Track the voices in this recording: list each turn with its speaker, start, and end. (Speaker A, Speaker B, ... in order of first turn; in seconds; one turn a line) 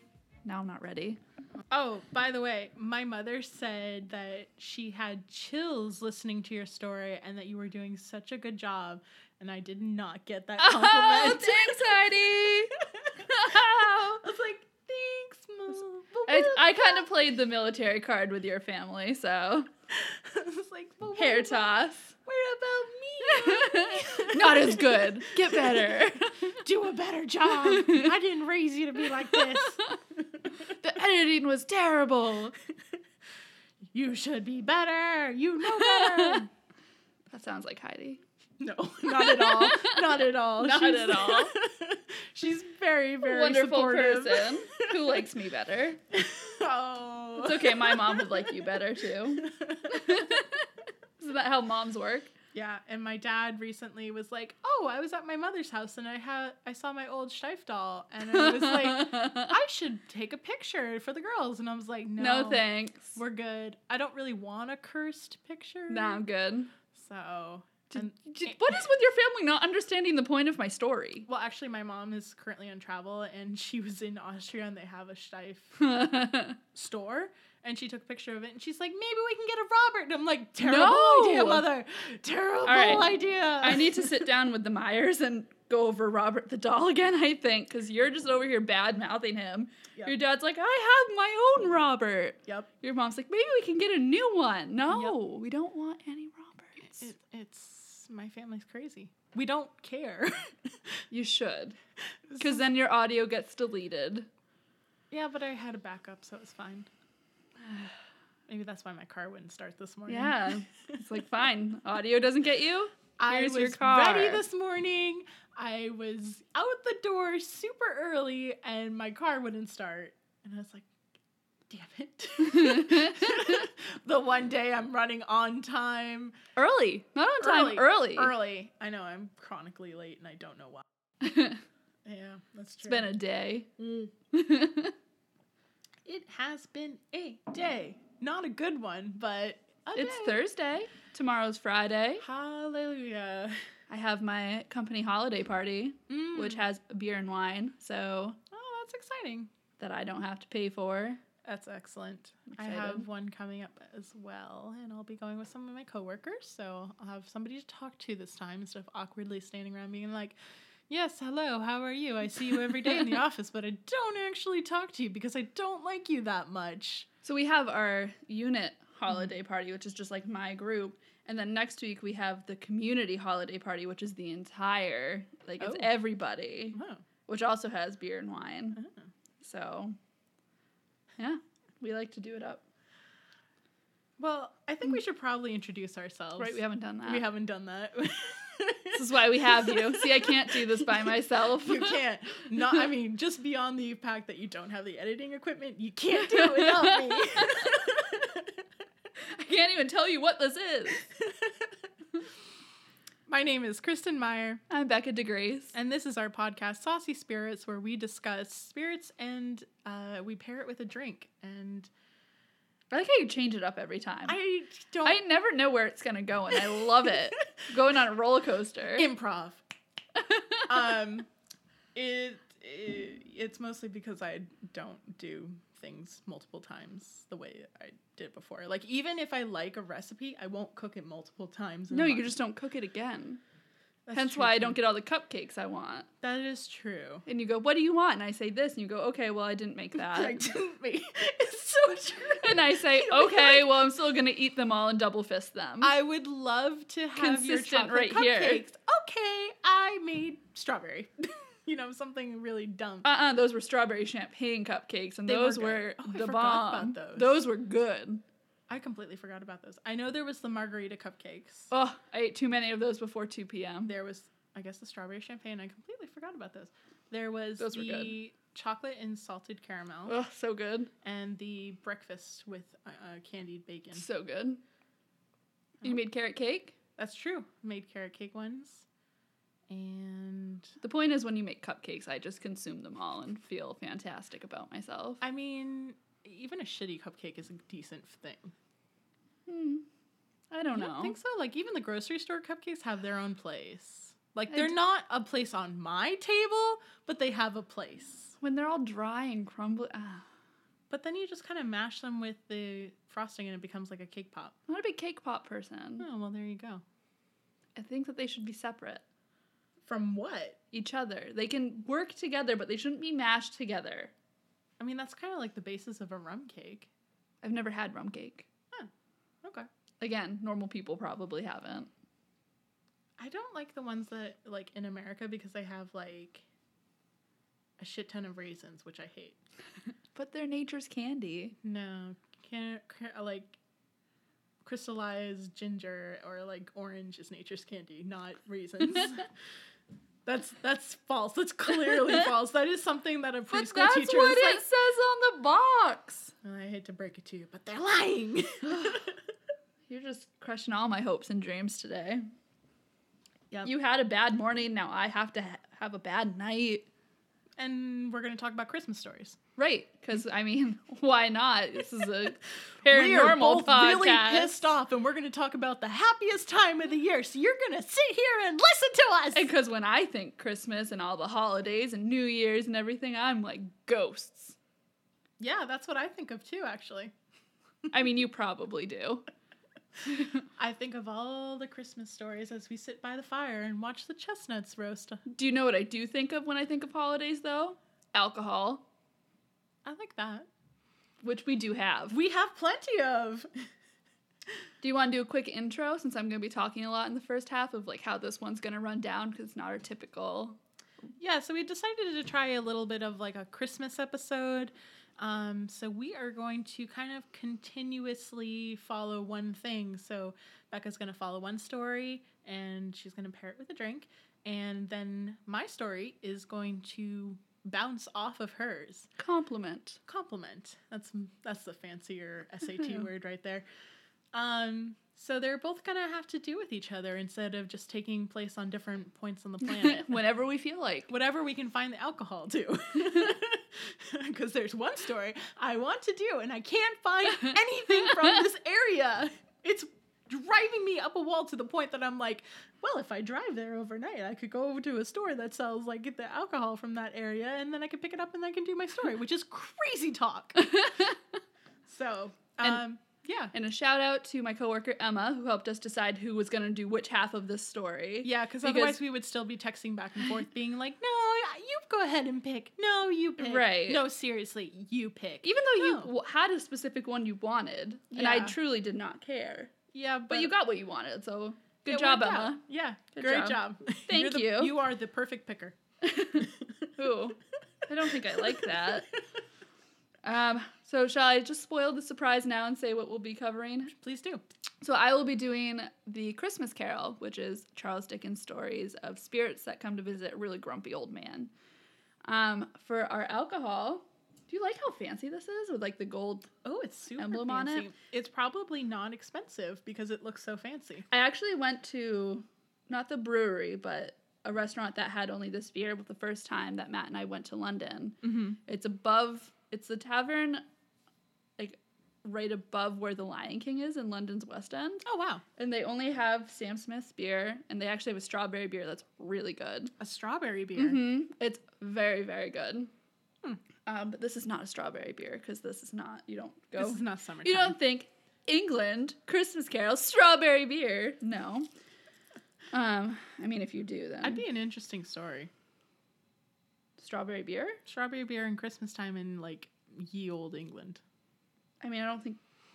Speaker A: 0.4-1.2
Speaker B: 1.7-17.1
Speaker A: 10.6-14.2
Speaker A: 16.3-19.7
Speaker B: 19.9-30.4
Speaker A: 21.1-22.1
Speaker A: 23.2-26.6
Speaker A: 27.5-28.1
Speaker A: 29.3-29.9
Speaker A: 30.6-32.5
Speaker B: 33.9-36.5
Speaker A: 35.6-36.4
Speaker A: 37.3-38.2
Speaker B: 38.6-45.2
Speaker A: 39.1-41.5
Speaker A: 43.2-46.0
Speaker B: 46.1-50.3
Speaker A: 47.4-50.7
Speaker A: 51.2-52.3
Speaker B: 52.5-66.2
Speaker A: 58.2-59.6
Speaker A: 62.2-63.2
Speaker A: 65.9-66.7
Speaker B: 66.9-68.8
Speaker A: 67.9-71.3
Speaker B: 71.3-75.8
Speaker A: 75.8-76.6
Speaker B: 76.7-84.3
Speaker A: 80.6-81.7
Speaker A: 82.6-97.1
Speaker B: 94.9-95.2
Speaker B: 96.8-101.0
Speaker A: 101.1-101.8
Speaker B: 102.3-102.7
Speaker A: 102.4-104.3
Speaker B: 105.1-106.9
Speaker B: 108.5-111.0
Speaker A: 110.1-114.4
Speaker B: 113.2-120.9
Speaker B: 121.7-126.3
Speaker A: 122.4-123.6
Speaker A: 126.5-128.3
Speaker B: 127.4-130.8
Speaker A: 131.2-131.6
Speaker B: 132.0-133.1
Speaker A: 132.8-133.7
Speaker B: 133.8-134.1
Speaker A: 134.3-134.9
Speaker B: 136.0-140.4
Speaker A: 139.9-142.2
Speaker B: 142.2-143.6
Speaker A: 143.9-148.4
Speaker B: 146.1-146.6
Speaker B: 148.5-149.5
Speaker A: 149.8-151.2
Speaker B: 151.4-160.3
Speaker A: 152.5-153.1
Speaker B: 160.9-167.1
Speaker A: 167.2-178.8
Speaker B: 175.6-176.0
Speaker B: 176.7-177.0
Speaker A: 179.4-179.9
Speaker A: 181.2-182.6
Speaker B: 184.2-198.6
Speaker A: 186.4-187.3
Speaker A: 188.9-192.0
Speaker A: 196.4-197.4
Speaker A: 199.3-201.1
Speaker B: 201.2-201.5
Speaker B: 203.3-204.6
Speaker A: 204.7-205.8
Speaker B: 205.7-211.9
Speaker A: 212.9-214.4
Speaker B: 214.2-215.2
Speaker A: 215.0-219.1
Speaker B: 216.7-217.1
Speaker B: 218.9-219.6
Speaker A: 220.2-220.8
Speaker B: 220.7-221.3
Speaker B: 221.9-232.3
Speaker A: 231.9-233.4
Speaker B: 234.1-234.8
Speaker A: 234.1-236.1
Speaker B: 236.2-237.2
Speaker A: 237.2-240.5
Speaker B: 239.9-243.8
Speaker A: 242.4-245.9
Speaker B: 245.8-253.1
Speaker A: 247.2-248.6
Speaker A: 253.0-258.2
Speaker B: 255.2-257.4
Speaker B: 258.7-261.7
Speaker A: 261.7-263.9
Speaker B: 263.9-270.1
Speaker A: 267.6-268.1
Speaker A: 270.1-270.9
Speaker B: 271.0-274.0
Speaker A: 273.9-274.6
Speaker A: 275.8-276.8
Speaker B: 277.0-278.9
Speaker B: 279.7-280.7
Speaker A: 280.8-285.2
Speaker B: 285.2-288.5
Speaker A: 289.5-289.9
Speaker A: 290.5-291.1
Speaker B: 290.7-298.3
Speaker A: 298.4-300.2
Speaker B: 300.9-304.5
Speaker A: 304.7-306.1
Speaker B: 306.0-306.8
Speaker A: 307.8-309.0
Speaker B: 309.8-310.6
Speaker A: 310.7-314.1
Speaker B: 314.8-316.9
Speaker A: 317.4-318.5
Speaker B: 319.4-319.7
Speaker A: 320.0-321.9
Speaker B: 323.2-326.4
Speaker B: 327.8-329.4
Speaker A: 330.1-331.6
Speaker B: 331.6-333.6
Speaker B: 334.6-339.3
Speaker B: 340.2-344.6
Speaker A: 343.5-346.3
Speaker B: 346.4-349.1
Speaker A: 348.6-349.1
Speaker A: 349.9-352.2
Speaker A: 353.6-356.9
Speaker B: 357.6-359.4
Speaker A: 359.6-364.6
Speaker B: 362.9-369.5
Speaker A: 369.3-374.6
Speaker B: 375.4-377.1
Speaker A: 377.9-379.2
Speaker A: 380.1-380.4
Speaker B: 380.6-385.2
Speaker A: 385.3-388.8
Speaker B: 389.8-390.5
Speaker A: 391.2-392.2
Speaker B: 392.1-393.5
Speaker A: 394.8-400.6
Speaker B: 401.2-419.1
Speaker A: 419.2-420.0
Speaker B: 420.1-423.6
Speaker B: 424.3-430.2
Speaker A: 429.6-431.1
Speaker B: 431.1-450.9
Speaker A: 450.6-451.1
Speaker B: 451.9-453.5
Speaker A: 453.5-459.0
Speaker B: 458.2-466.1
Speaker A: 463.4-464.1
Speaker A: 465.4-469.7
Speaker B: 468.1-468.6
Speaker B: 469.9-470.5
Speaker A: 470.3-472.6
Speaker B: 471.9-475.8
Speaker A: 473.1-474.8
Speaker A: 476.0-479.1
Speaker B: 476.3-476.7
Speaker B: 478.5-478.9
Speaker A: 480.2-483.9
Speaker B: 483.9-484.4
Speaker A: 484.8-491.5
Speaker A: 492.2-496.6
Speaker B: 496.6-501.1
Speaker A: 497.2-497.9
Speaker A: 501.1-510.6
Speaker B: 508.2-508.6
Speaker A: 511.6-519.9
Speaker B: 515.0-515.4
Speaker B: 520.0-521.0
Speaker A: 520.7-522.9
Speaker A: 523.9-531.7
Speaker B: 526.8-527.8
Speaker A: 532.7-534.4
Speaker B: 534.2-535.5
Speaker A: 537.0-537.8
Speaker B: 537.9-541.0
Speaker A: 541.8-542.4